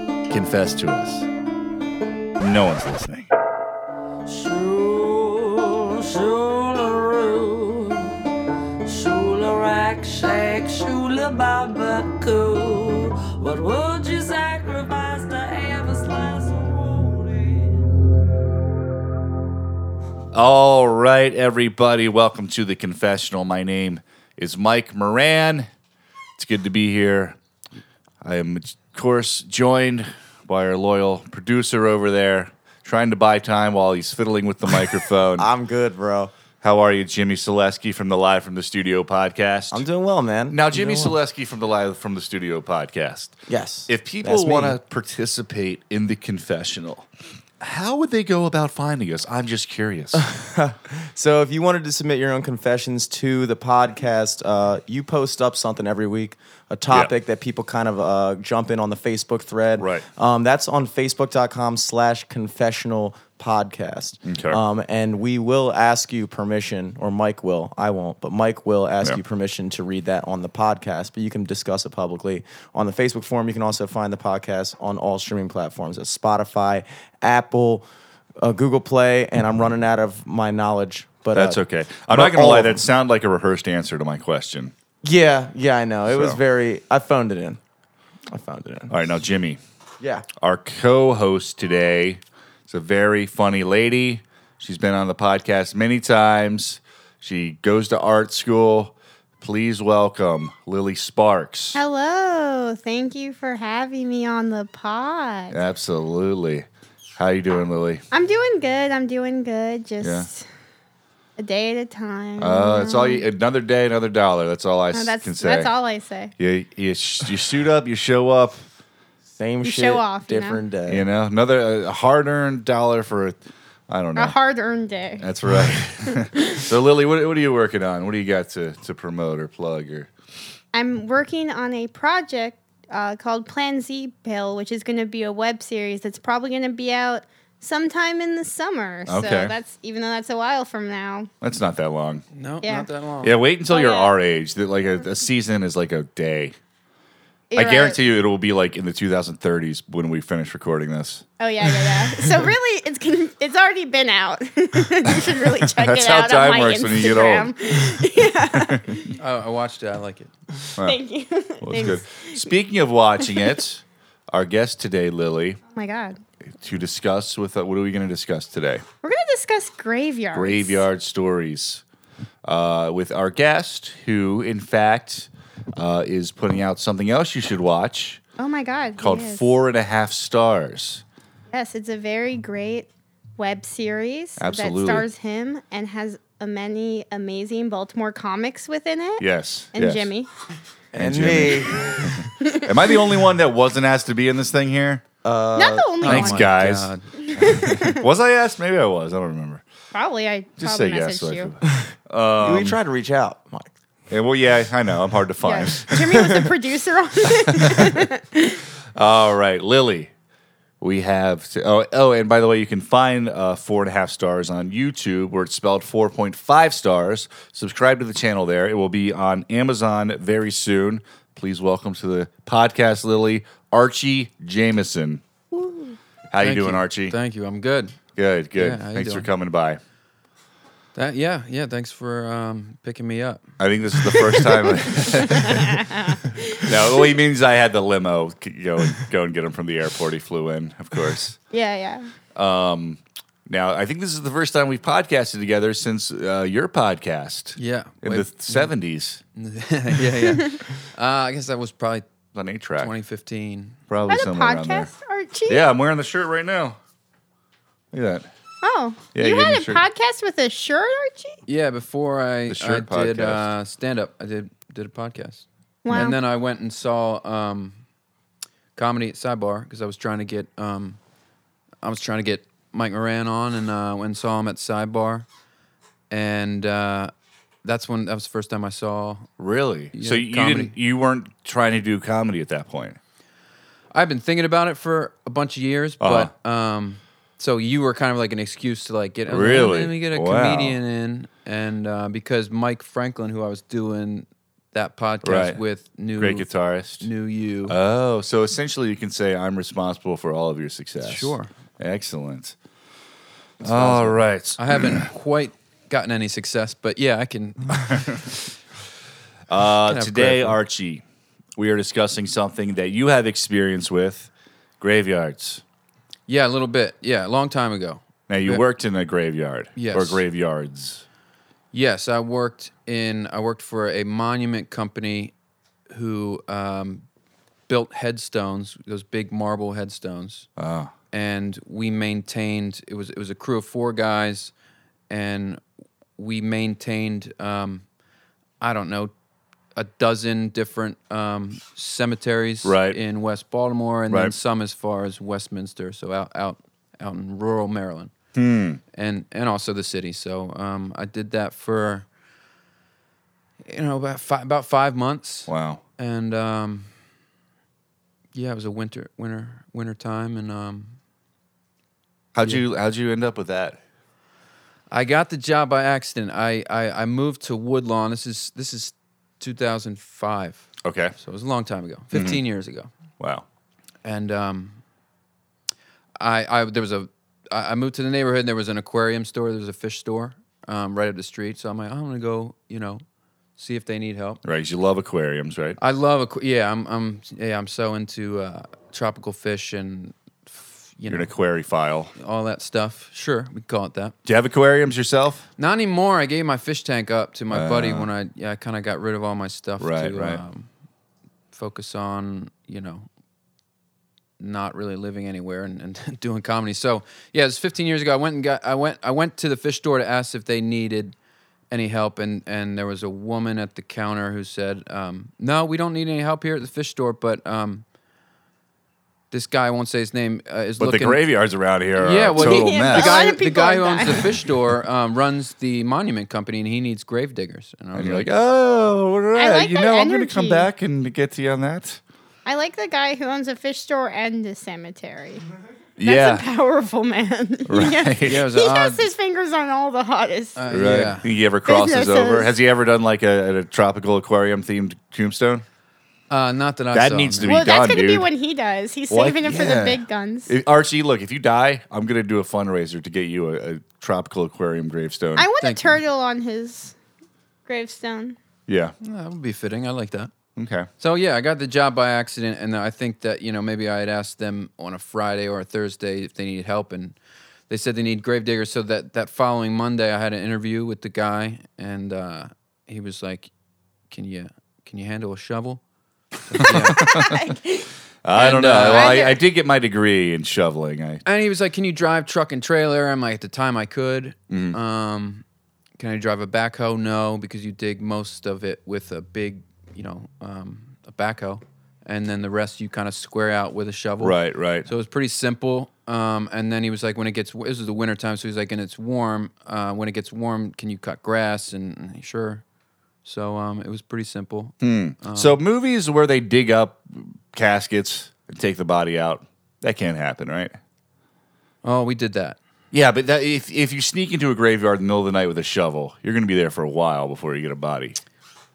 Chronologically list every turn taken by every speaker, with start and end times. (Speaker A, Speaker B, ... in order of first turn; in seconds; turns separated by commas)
Speaker A: 0.3-1.3, Speaker A: 2.4-3.3, Speaker B: 4.2-8.2, Speaker B: 8.8-17.9, Speaker A: 20.3-25.7, Speaker A: 26.4-27.4, Speaker A: 28.2-35.5, Speaker C: 35.4-36.3, Speaker A: 36.6-39.9, Speaker C: 39.7-41.1, Speaker A: 40.5-43.4, Speaker C: 43.5-44.8, Speaker A: 43.9-47.1, Speaker A: 47.6-50.2, Speaker C: 50.1-77.8, Speaker A: 59.8-60.0, Speaker A: 64.3-64.6, Speaker C: 78.4-81.6, Speaker A: 81.3-84.7, Speaker C: 82.1-82.8, Speaker C: 85.0-87.6, Speaker A: 86.1-86.4, Speaker C: 88.3-88.9, Speaker A: 88.9-89.6, Speaker C: 90.0-90.3, Speaker A: 90.4-101.8, Speaker D: 101.8-105.6, Speaker A: 105.5-106.7, Speaker A: 107.2-108.0, Speaker D: 108.1-110.5, Speaker A: 110.0-110.3, Speaker D: 111.4-113.3, Speaker A: 112.4-115.7, Speaker D: 114.9-116.3, Speaker A: 116.4-118.7, Speaker C: 119.3-121.0, Speaker D: 119.6-120.6, Speaker A: 120.9-124.4, Speaker D: 124.2-125.3, Speaker A: 125.2-130.1, Speaker D: 126.1-126.7, Speaker D: 130.7-141.3, Speaker A: 139.1-139.5, Speaker A: 141.4-142.2, Speaker E: 142.3-143.4, Speaker D: 142.6-142.9, Speaker A: 143.2-146.6, Speaker D: 143.7-144.1, Speaker D: 147.5-148.0, Speaker A: 147.6-151.2, Speaker D: 151.4-159.2, Speaker A: 151.8-152.5, Speaker A: 155.1-159.0, Speaker E: 159.2-160.3, Speaker D: 160.8-162.4, Speaker A: 161.6-165.6, Speaker D: 165.7-166.2, Speaker A: 166.5-168.8, Speaker D: 169.0-170.8, Speaker A: 170.3-171.8, Speaker A: 172.4-178.2, Speaker D: 178.4-179.5, Speaker A: 179.0-181.0, Speaker D: 181.5-190.3, Speaker A: 184.4-185.1, Speaker A: 189.2-190.1, Speaker C: 190.9-192.3, Speaker A: 191.0-195.0, Speaker D: 192.4-192.8, Speaker C: 195.2-195.9, Speaker D: 195.6-196.5, Speaker E: 196.0-197.5, Speaker A: 196.0-199.6, Speaker D: 197.2-198.1, Speaker D: 199.9-201.5, Speaker A: 200.6-202.8, Speaker C: 202.4-203.7, Speaker A: 204.1-206.2, Speaker D: 205.4-208.6, Speaker A: 207.5-208.1, Speaker A: 208.9-210.1, Speaker A: 210.8-225.2, Speaker D: 225.5-226.0, Speaker A: 226.3-227.2, Speaker E: 226.4-228.0, Speaker A: 228.2-229.8, Speaker E: 228.5-229.3, Speaker E: 230.9-233.4, Speaker A: 233.6-235.9, Speaker D: 235.3-236.8, Speaker A: 236.5-241.4, Speaker D: 241.5-242.1, Speaker A: 242.3-249.2, Speaker E: 247.6-248.7, Speaker E: 249.3-252.1, Speaker A: 252.3-252.9, Speaker E: 252.8-253.8, Speaker A: 253.9-254.9, Speaker D: 254.1-255.7, Speaker A: 255.5-256.8, Speaker A: 257.9-258.3, Speaker D: 258.6-261.4, Speaker A: 259.1-259.8, Speaker E: 261.5-267.8, Speaker A: 262.5-263.5, Speaker D: 265.9-266.2, Speaker E: 268.8-271.0, Speaker E: 271.8-275.3, Speaker E: 276.1-277.1, Speaker E: 277.6-279.3, Speaker A: 279.4-283.0, Speaker E: 279.9-280.7, Speaker E: 283.9-296.5, Speaker A: 286.0-286.3, Speaker A: 289.3-290.8, Speaker A: 295.2-295.6, Speaker A: 296.2-297.1, Speaker E: 297.0-297.8, Speaker A: 297.7-302.6, Speaker E: 301.0-301.5, Speaker A: 303.6-305.1, Speaker E: 303.6-308.3, Speaker A: 309.5-311.0, Speaker E: 309.9-310.6, Speaker A: 311.6-315.6, Speaker E: 316.3-318.6, Speaker A: 318.3-321.0, Speaker E: 319.8-320.2, Speaker E: 321.7-325.3, Speaker E: 325.9-327.1, Speaker E: 327.7-330.5, Speaker A: 330.6-330.9, Speaker E: 331.1-334.5, Speaker E: 335.1-335.6, Speaker E: 336.2-337.8, Speaker E: 338.6-339.1, Speaker E: 339.8-348.1, Speaker A: 342.6-343.0, Speaker A: 348.4-348.8, Speaker E: 348.9-352.1, Speaker E: 353.7-356.9, Speaker A: 355.5-355.8, Speaker E: 358.3-361.0, Speaker A: 362.3-363.8, Speaker E: 364.9-372.9, Speaker A: 370.8-371.1, Speaker A: 372.1-372.4, Speaker A: 373.2-373.4, Speaker E: 374.0-374.8, Speaker E: 376.2-383.0, Speaker E: 383.6-384.4, Speaker A: 384.4-385.8, Speaker E: 385.8-391.3, Speaker A: 391.1-392.1, Speaker E: 392.1-394.1, Speaker A: 394.2-395.5, Speaker E: 395.6-400.7, Speaker A: 397.5-398.1, Speaker A: 399.8-400.4, Speaker E: 401.5-403.1, Speaker E: 404.4-411.1, Speaker E: 411.7-417.9, Speaker E: 419.3-421.2, Speaker A: 420.8-423.2, Speaker E: 422.0-428.3, Speaker D: 422.4-424.4, Speaker A: 427.9-432.0, Speaker D: 429.4-430.7, Speaker D: 432.4-435.4, Speaker A: 436.0-436.4, Speaker D: 436.0-440.6, Speaker A: 437.7-438.4, Speaker E: 438.2-439.1, Speaker E: 440.6-441.3, Speaker A: 440.7-445.6, Speaker D: 441.6-442.5, Speaker E: 446.3-447.5, Speaker A: 446.9-448.3, Speaker D: 447.4-450.5, Speaker A: 449.1-455.5, Speaker D: 455.4-456.9, Speaker E: 455.6-456.0, Speaker D: 457.7-458.4, Speaker A: 458.7-458.9, Speaker E: 459.0-460.3, Speaker A: 460.6-460.9, Speaker E: 461.0-467.2, Speaker E: 467.7-473.5, Speaker E: 474.1-475.8, Speaker E: 476.5-477.1, Speaker A: 476.6-477.5, Speaker D: 476.9-477.9, Speaker A: 478.2-481.2, Speaker E: 478.4-479.2, Speaker D: 478.6-479.4, Speaker E: 481.2-485.4, Speaker A: 484.5-484.8, Speaker E: 486.0-502.6, Speaker A: 494.2-494.9, Speaker E: 503.2-505.6, Speaker A: 504.8-510.8, Speaker E: 511.8-512.6, Speaker A: 512.9-518.2